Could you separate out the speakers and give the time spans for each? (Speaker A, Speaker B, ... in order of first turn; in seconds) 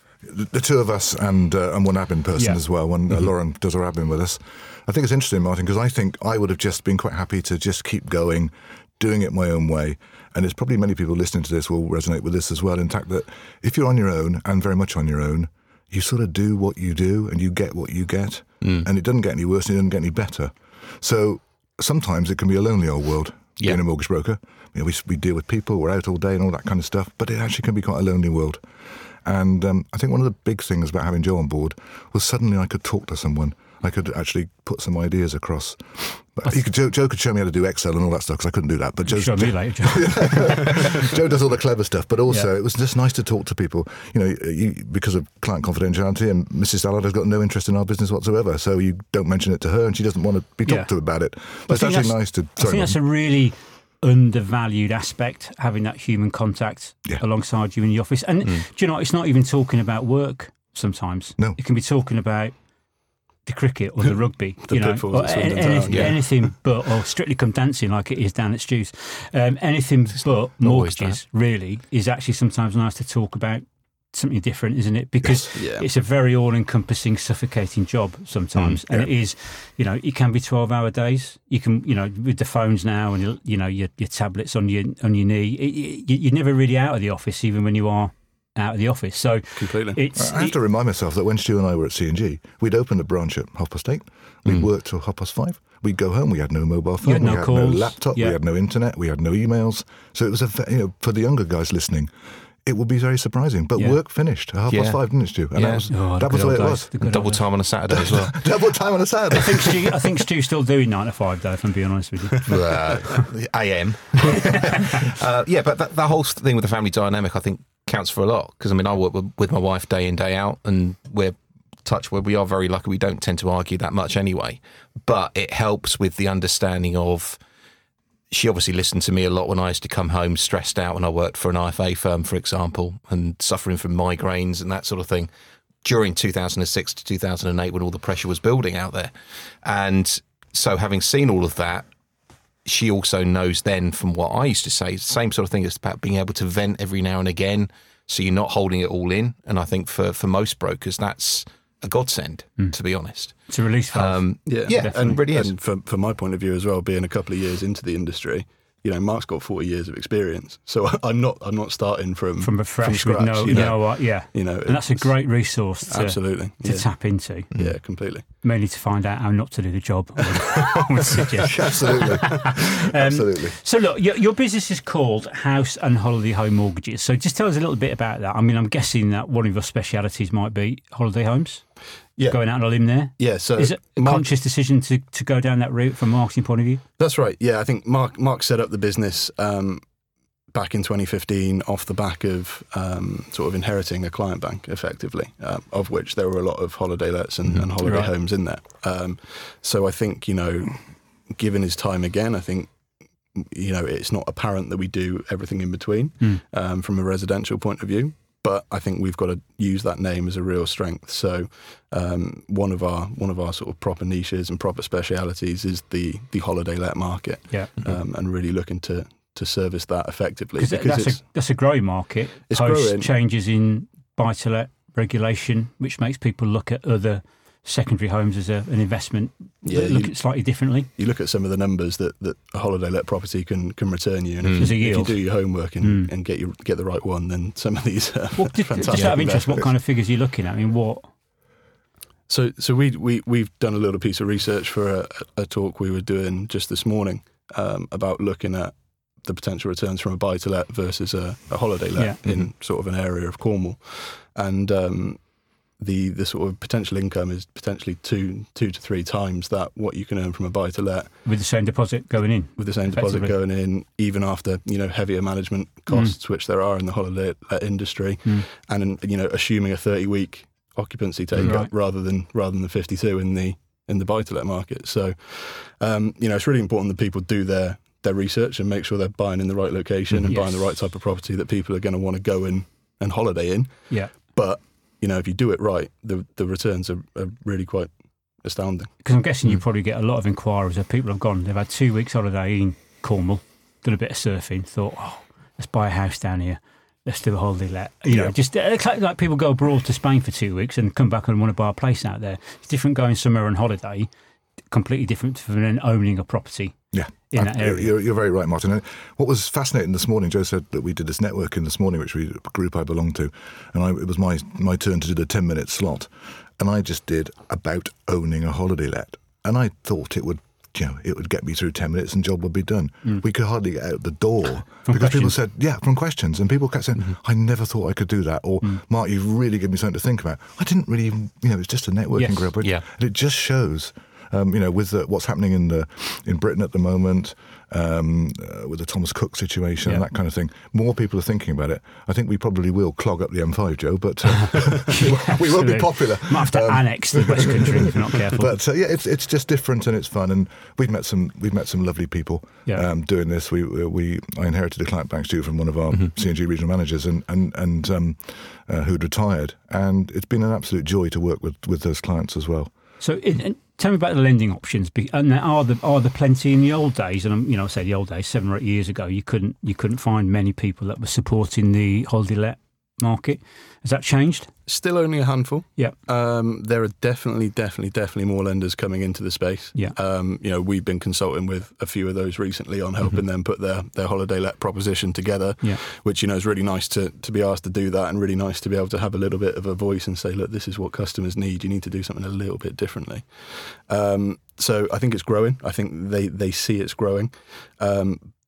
Speaker A: 0.2-28.6, 29.2-53.0, 90.1-102.1, 102.6-106.9, 107.9-110.1, 171.4-173.6, 298.1-298.3, 306.9-362.7
Speaker B: 2.4-2.6, 39.1-40.7, 50.6-51.0, 51.7-62.5, 63.4-90.6, 97.0-98.4, 103.7-104.0, 105.9-107.5, 109.3-113.1, 153.3-155.2, 162.4-167.5, 168.4-186.8, 197.8-198.1, 220.6-230.9, 234.5-236.1, 238.3-241.1, 261.2-263.4, 265.9-266.1, 271.4-271.7, 280.3-280.7, 289.0-304.1, 304.7-307.9, 324.9-325.4, 332.1-332.5, 339.8-340.1, 344.5-348.6, 363.0-374.5
Speaker C: 18.6-18.9, 65.9-66.1, 70.1-71.2, 78.5-79.0, 104.7-105.8, 107.0-108.3, 112.5-127.4, 128.3-135.3, 135.8-141.9, 142.6-155.5, 163.5-163.8, 234.4-234.7, 238.9-239.2
Speaker D: 64.0-66.4, 75.2-75.9, 89.5-90.0, 154.4-168.2, 182.2-184.2, 187.0-189.8, 190.5-202.7, 203.3-221.2, 222.4-223.1, 229.6-239.7, 242.3-255.3, 255.8-261.3, 262.5-288.9, 374.6-398.3